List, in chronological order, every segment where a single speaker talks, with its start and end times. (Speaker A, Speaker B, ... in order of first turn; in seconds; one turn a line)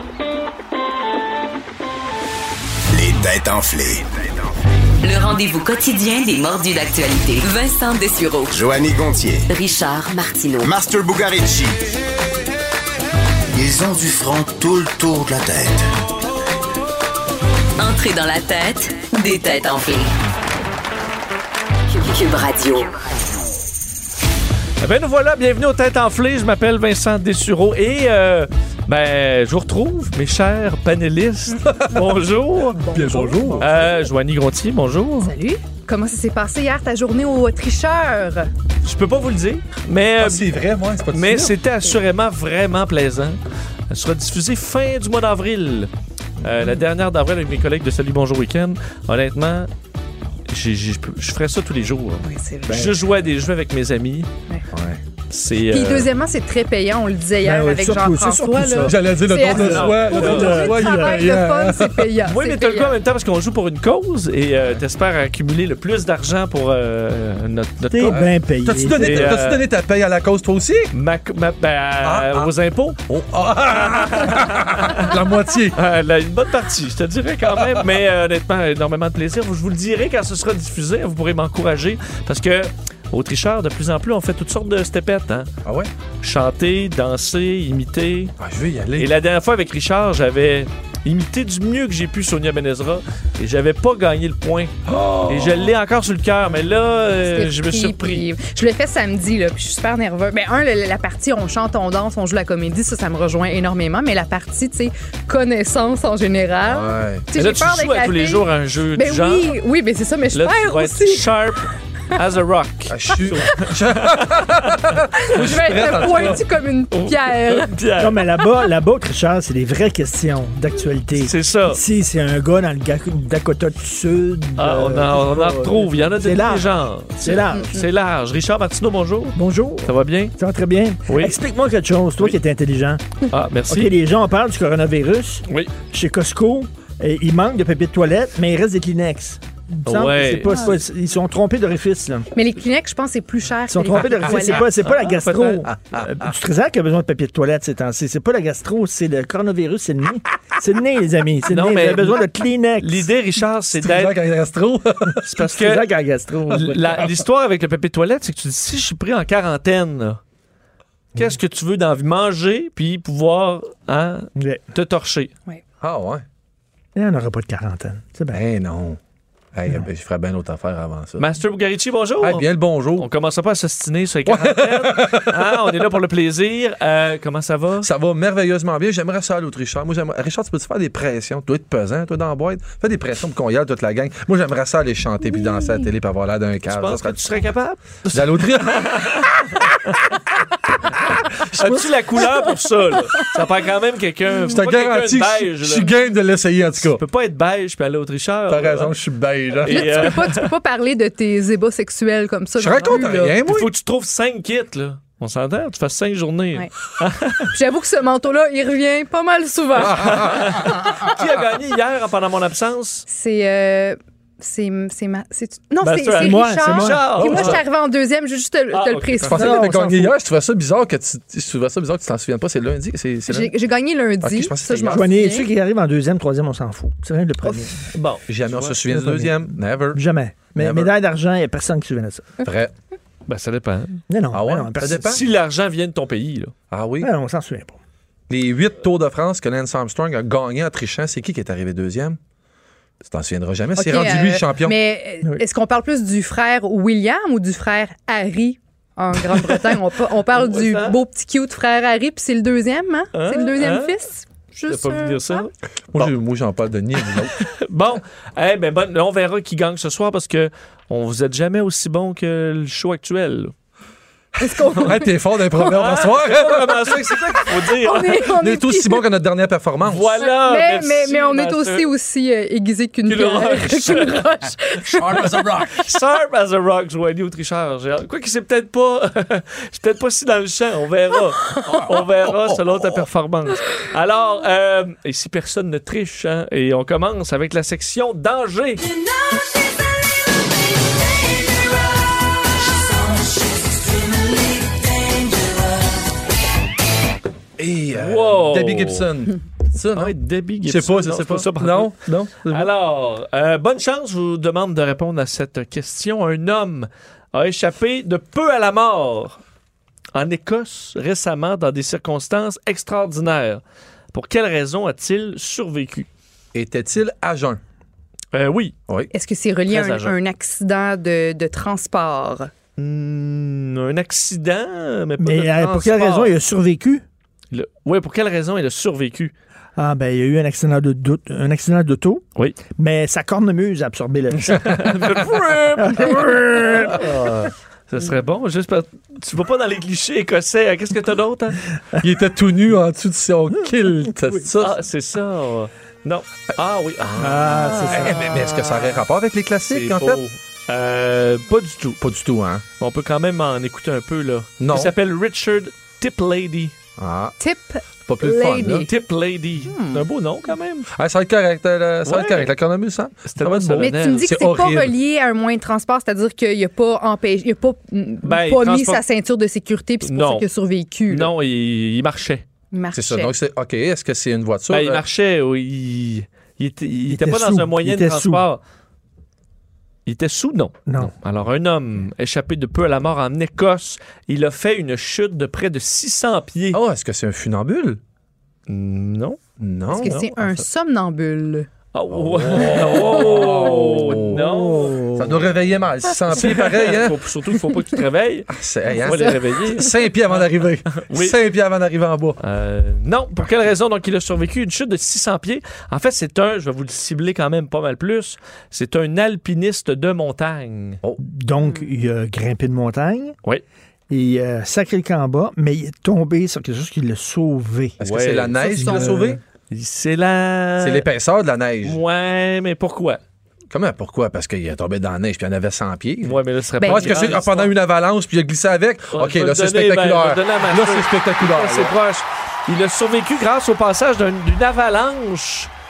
Speaker A: 2.9-4.0
Speaker B: 5.0-8.7
Speaker A: 8.5-9.5
Speaker B: 9.5-10.8
Speaker A: 10.6-11.8
Speaker A: 13.5-15.8
Speaker B: 17.8-20.1
Speaker B: 21.9-23.0
Speaker C: 24.8-32.8
Speaker D: 31.5-32.0
Speaker E: 31.7-32.2
Speaker D: 32.8-34.1
Speaker E: 32.8-33.7
Speaker C: 33.6-35.3
Speaker D: 35.2-38.5
Speaker C: 38.8-40.5
Speaker E: 40.2-41.5
Speaker C: 41.1-43.4
Speaker C: 43.9-45.9
Speaker C: 46.4-49.7
Speaker C: 50.5-54.3
Speaker D: 52.2-53.0
Speaker E: 54.7-55.0
Speaker C: 55.3-56.1
Speaker D: 55.7-63.0
Speaker F: 57.4-61.2
Speaker E: 58.9-62.1
Speaker C: 59.6-60.7
Speaker C: 62.2-68.2
Speaker F: 67.9-69.4
Speaker E: 68.0-70.9
Speaker C: 69.0-69.6
Speaker C: 70.9-73.0
Speaker E: 72.0-72.5
Speaker E: 73.1-75.8
Speaker C: 73.7-75.1
Speaker C: 75.7-85.5
Speaker C: 86.2-88.3
Speaker E: 88.4-89.1
Speaker C: 89.0-98.3
Speaker E: 94.9-95.7
Speaker D: 97.2-111.5
Speaker E: 106.7-107.3
Speaker C: 107.3-109.5
Speaker C: 110.3-116.4
Speaker E: 112.9-116.4
Speaker D: 115.2-117.7
Speaker C: 116.9-118.2
Speaker F: 118.0-127.8
Speaker C: 121.1-121.8
Speaker C: 124.6-130.3
Speaker F: 129.3-133.1
Speaker C: 131.1-131.4
Speaker C: 133.3-133.9
Speaker F: 133.7-142.3
Speaker C: 139.9-140.6
Speaker D: 140.4-140.7
Speaker D: 142.3-144.7
Speaker F: 143.7-153.1
Speaker C: 143.9-145.7
Speaker E: 145.7-146.3
Speaker C: 151.5-154.2
Speaker E: 153.7-155.3
Speaker C: 155.2-155.9
Speaker F: 155.4-157.0
Speaker C: 156.5-160.2
Speaker C: 161.2-165.3
Speaker F: 164.4-164.6
Speaker E: 165.8-166.2
Speaker F: 166.9-168.4
Speaker E: 168.3-169.0
Speaker E: 169.5-171.3
Speaker C: 171.2-177.9
Speaker E: 172.2-173.1
Speaker E: 174.3-175.6
Speaker E: 177.8-187.5
Speaker C: 186.7-190.1
Speaker E: 188.1-189.8
Speaker E: 190.9-192.3
Speaker C: 191.5-195.9
Speaker E: 194.4-197.0
Speaker C: 196.8-199.0
Speaker E: 198.5-200.2
Speaker C: 199.6-200.5
Speaker D: 199.7-203.4
Speaker E: 202.6-203.7
Speaker C: 202.8-207.5
Speaker D: 207.5-211.0
Speaker E: 209.8-210.8
Speaker C: 209.8-213.1
Speaker D: 213.1-219.7
Speaker C: 215.8-217.6
Speaker F: 216.2-217.5
Speaker C: 218.7-219.3
Speaker E: 219.2-223.5
Speaker F: 219.3-220.2
Speaker D: 223.3-225.5
Speaker E: 224.2-225.1
Speaker F: 224.9-227.9
Speaker C: 227.9-228.8
Speaker E: 228.3-230.0
Speaker F: 228.9-232.4
Speaker E: 230.6-230.9
Speaker E: 232.4-232.7
Speaker C: 233.3-234.0
Speaker F: 234.1-235.2
Speaker E: 234.3-235.2
Speaker C: 234.9-236.5
Speaker E: 236.7-237.1
Speaker F: 237.0-237.8
Speaker E: 238.3-242.2
Speaker E: 243.0-244.8
Speaker D: 243.8-255.5
Speaker C: 250.3-251.0
Speaker C: 253.1-253.9
Speaker C: 254.7-256.1
Speaker E: 255.9-257.4
Speaker C: 257.3-263.5
Speaker D: 264.4-265.1
Speaker E: 264.8-267.4
Speaker C: 265.7-268.2
Speaker D: 267.5-269.1
Speaker E: 268.3-270.1
Speaker C: 269.9-271.9
Speaker D: 270.2-275.5
Speaker C: 273.1-274.2
Speaker E: 275.0-275.8
Speaker C: 275.2-288.8
Speaker E: 281.7-283.1
Speaker E: 297.6-302.7
Speaker C: 297.9-299.1
Speaker C: 300.0-309.4
Speaker C: 310.1-313.6
Speaker C: 314.1-316.1
Speaker E: 316.6-317.6
Speaker C: 318.3-318.8
Speaker D: 319.1-322.5
Speaker C: 319.7-320.1
Speaker C: 322.8-326.3
Speaker F: 325.2-327.0
Speaker C: 327.5-329.4
Speaker F: 329.8-334.8
Speaker C: 334.3-341.6
Speaker F: 335.8-337.1
Speaker E: 342.0-344.8
Speaker F: 343.6-344.4
Speaker C: 344.6-347.5
Speaker E: 347.0-350.2
Speaker F: 347.2-348.2
Speaker D: 347.6-348.8
Speaker C: 349.7-352.0
Speaker E: 352.0-352.6
Speaker C: 352.8-356.8
Speaker E: 354.6-354.9
Speaker E: 357.0-357.4
Speaker D: 357.4-358.9
Speaker E: 358.1-358.9
Speaker C: 358.8-360.9
Speaker D: 359.7-360.1
Speaker E: 360.9-364.9
Speaker C: 362.1-362.5
Speaker C: 363.3-364.3
Speaker D: 363.8-371.3
Speaker C: 368.2-369.0
Speaker C: 370.0-370.5
Speaker C: 371.1-372.4
Speaker D: 372.7-373.3
Speaker E: 372.9-375.0
Speaker C: 374.7-378.6
Speaker F: 377.1-378.5
Speaker C: 380.1-386.8
Speaker F: 380.9-381.1
Speaker E: 386.7-388.0
Speaker C: 388.7-390.6
Speaker E: 389.6-390.2
Speaker D: 389.9-391.7
Speaker C: 391.9-395.0
Speaker E: 392.1-394.5
Speaker F: 394.0-395.4
Speaker E: 395.1-397.2
Speaker C: 396.3-398.5
Speaker E: 398.5-402.4
Speaker C: 399.0-399.9
Speaker C: 400.9-401.4
Speaker C: 402.4-411.0
Speaker F: 411.2-413.4
Speaker D: 411.6-411.9
Speaker F: 414.1-418.0
Speaker E: 418.0-419.4
Speaker C: 418.0-419.0
Speaker F: 418.6-419.4
Speaker C: 419.7-421.1
Speaker E: 420.8-422.0
Speaker C: 421.8-423.2
Speaker E: 423.7-432.0
Speaker C: 426.2-427.7
Speaker D: 426.8-427.4
Speaker C: 429.1-435.7